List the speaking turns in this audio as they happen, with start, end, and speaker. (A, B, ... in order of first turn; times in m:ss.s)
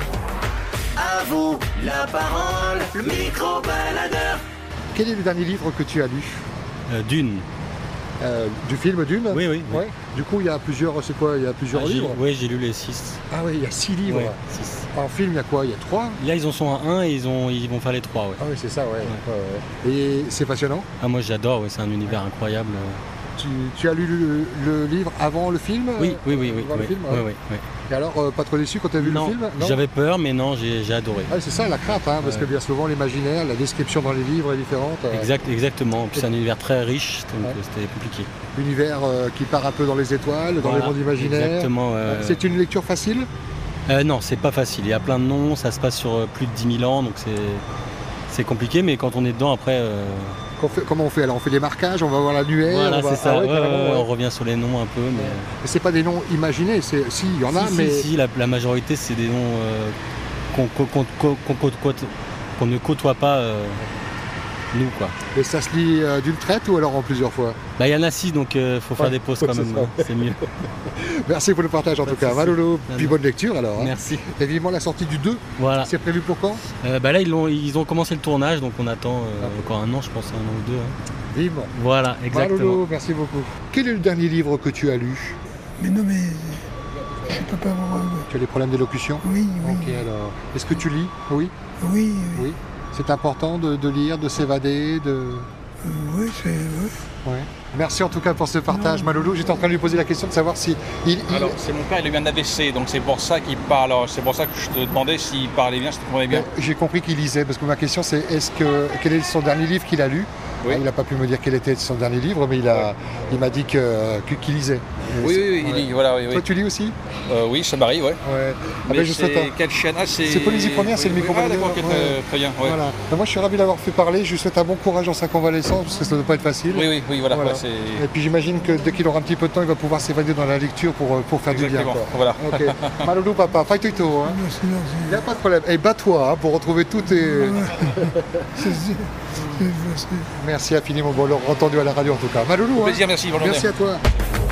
0:00.9-0:04.4 A
0:04.9-0:06.4 B
0:06.9-0:07.4 C
0:08.2-0:12.2 B
0:09.3-0:09.8 C
0:11.7-0:13.2 C
0:13.3-0:14.4 B
0:14.1-0:14.9 C
0:14.9-0:16.2 B
0:16.2-0:18.5 C
0:18.4-0:20.9 B
0:21.0-0:23.0 C
0:23.4-0:27.2 B
0:26.0-0:27.6 C
0:27.9-0:29.8 B
0:29.0-0:31.4 C
0:31.3-0:35.3 B
0:32.2-0:32.5 C
0:35.1-0:38.3 C
0:38.5-0:43.3 B
0:40.6-0:42.4 C
0:43.9-0:47.6 C
0:48.3-0:50.4 C
0:50.6-0:54.1 B
0:52.6-0:55.5 C
0:55.2-0:58.1 B
0:57.5-1:00.0 C
1:00.5-1:03.8 C
1:04.7-1:05.1 C
1:05.3-1:07.6 B
1:07.8-1:10.4 C
1:09.0-1:10.1 B
1:10.8-1:16.6 B
1:12.0-1:13.2 C
1:13.8-1:14.2 C
1:15.6-1:15.9 C
1:16.8-1:20.9 C
1:19.4-1:19.7 B
1:21.3-1:21.7 B
1:21.7-1:22.8 C
1:22.3-1:25.4 B
1:25.8-1:26.6 D
1:27.3-1:28.2 D
1:28.3-1:31.5 B
1:29.2-1:30.0 D
1:31.8-1:32.5 D
1:32.3-1:35.5 B
1:35.8-1:37.0 D
1:37.2-1:41.6 B
1:41.3-1:46.5 E
1:46.3-1:57.0 B
1:55.2-1:56.5 E
1:57.3-1:58.2 E
1:58.2-1:59.5 B
1:58.8-2:02.8 E
2:00.2-2:14.4 B
2:06.7-2:08.0 E
2:11.5-2:13.0 E
2:14.2-2:15.2 D
2:15.0-2:18.1 B
2:17.5-2:20.2 D
2:20.2-2:24.0 B
2:22.7-2:23.7 E